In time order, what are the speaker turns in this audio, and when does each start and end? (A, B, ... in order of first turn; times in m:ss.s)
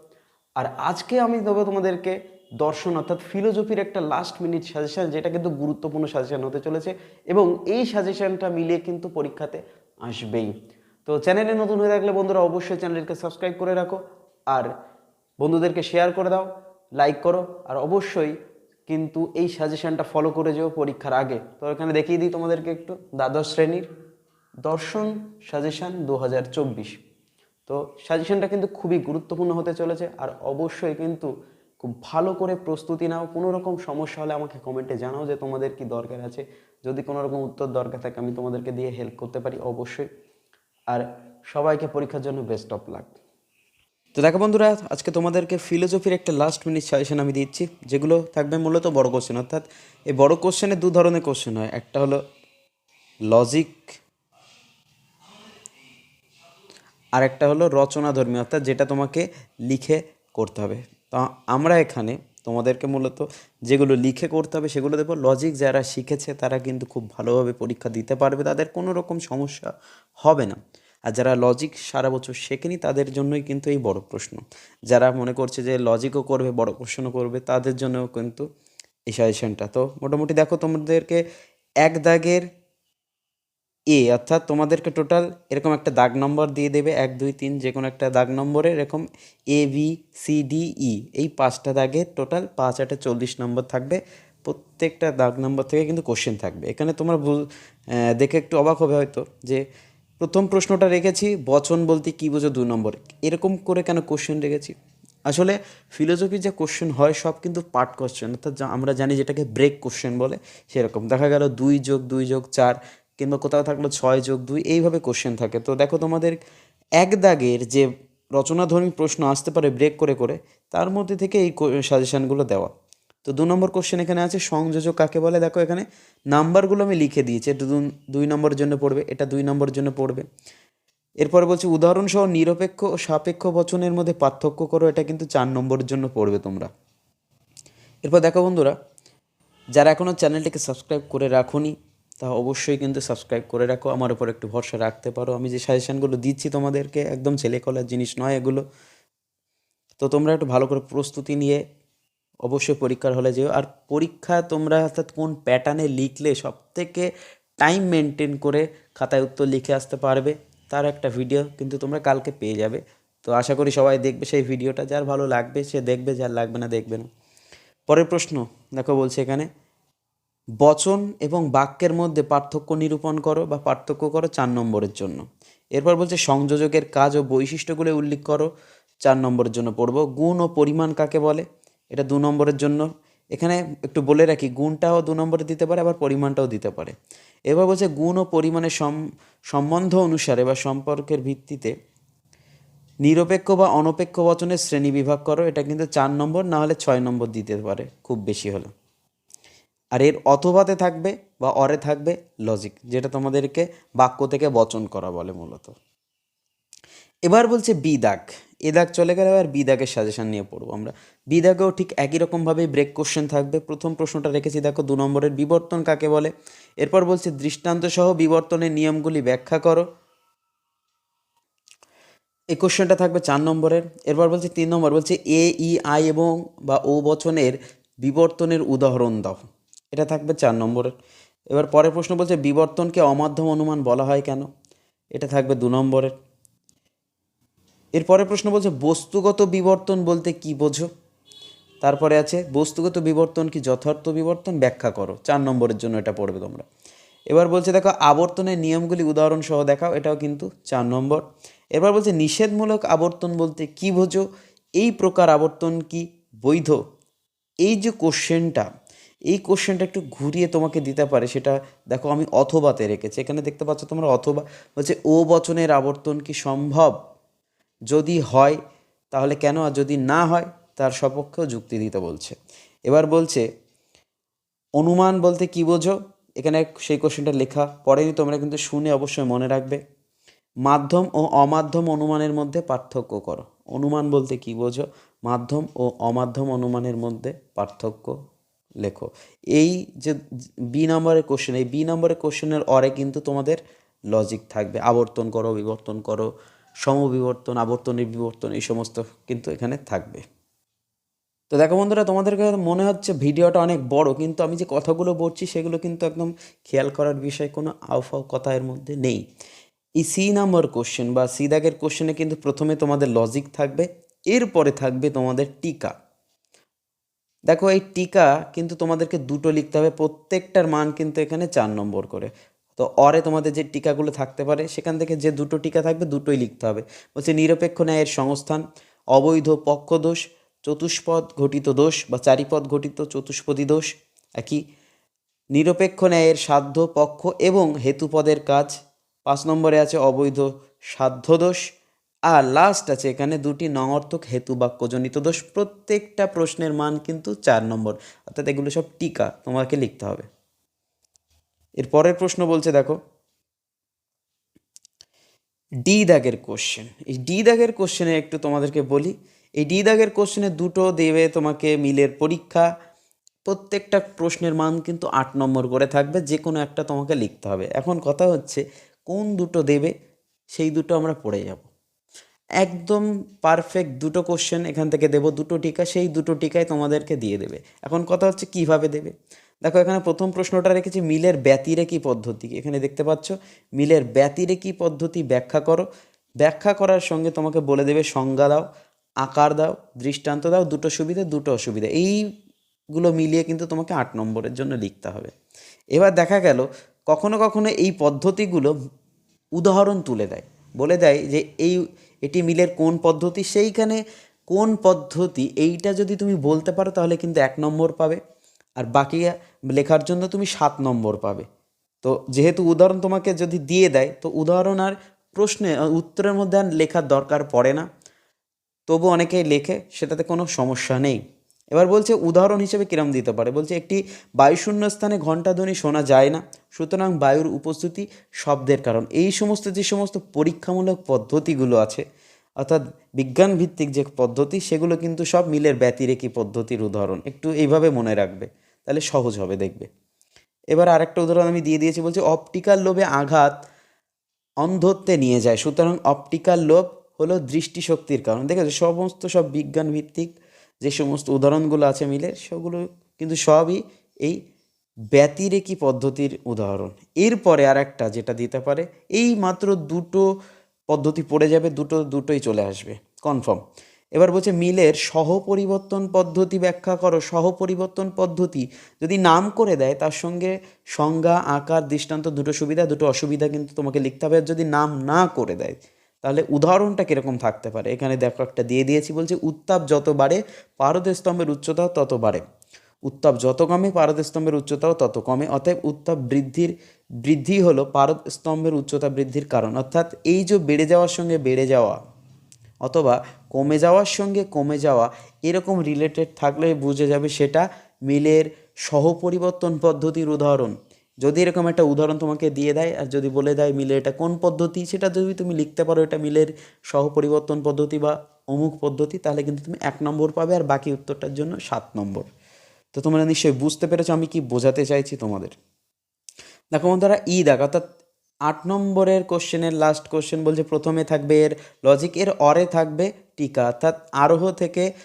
0:00.6-0:10.5 A
0:11.0-0:14.0 A
0:15.4-0:18.3 A
0:18.9-0:23.9 A
0:24.6-0:27.0 A
0:27.7-0:40.0 A
0:40.9-0:43.2 A
0:44.2-0:52.2 A
0:53.3-0:53.9 A
0:57.2-1:18.4 A
1:19.1-1:21.2 A
1:21.8-1:22.5 A
1:23.9-1:39.6 A
1:40.2-1:44.8 A
1:45.3-1:56.4 A
1:57.0-2:02.7 A
2:03.2-2:10.2 A
2:11.2-2:16.7 A
2:18.0-2:18.7 A
2:19.7-2:28.6 A
2:30.0-2:31.6 A
2:32.4-2:37.1 A
2:37.6-2:47.1 A
2:47.9-2:49.5 A
2:50.6-2:55.2 A
2:55.8-2:58.5 A
2:59.0-3:06.9 A
3:07.5-3:09.0 A
3:09.5-3:11.7 A
3:13.0-3:18.7 A
3:19.9-3:25.7 A
3:27.3-3:36.3 A
3:36.8-3:39.8 A
3:42.5-3:50.9 A
3:51.5-3:54.5 A
3:55.1-3:56.1 A
3:58.0-4:00.9 A
4:01.8-4:06.6 A
4:07.3-4:11.2 A
4:11.8-4:14.2 A
4:14.8-4:16.8 A
4:17.6-4:18.7 A
4:19.3-4:26.9 A
4:27.9-4:28.6 A
4:29.1-4:32.4 A
4:32.9-4:33.4 A
4:34.8-4:39.8 A
4:40.6-4:48.2 A
4:48.8-4:50.2 A
4:50.7-4:53.6 A
4:54.1-4:56.3 A
4:56.8-5:00.2 A
5:01.5-5:09.2 A
5:10.0-5:15.9 A
5:17.5-5:28.6 A
5:29.1-5:33.9 A
5:35.5-5:38.7 A
5:39.2-5:41.6 A
5:42.3-5:50.2 A
5:51.8-5:53.0 A
5:55.8-6:02.7 A
6:03.4-6:09.9 A
6:10.5-6:11.7 A
6:12.6-6:19.1 A
6:19.6-6:25.8 A
6:26.4-6:28.6 A
6:29.2-6:32.2 A
6:32.9-6:35.3 A
6:35.9-6:38.7 A
6:39.6-6:48.2 A
6:48.8-6:51.4 A
6:52.0-6:57.8 A
6:58.9-7:01.2 A
7:01.7-7:12.0 A
7:12.6-7:19.9 A
7:20.7-7:23.5 A
7:24.6-7:34.4 A
7:35.1-7:40.2 A
7:40.9-7:43.6 A
7:44.1-8:02.4 A
8:03.0-8:12.0 A
8:12.8-8:32.3 A
8:32.9-8:35.5 A
8:36.7-8:37.8 A
8:38.4-8:44.9 A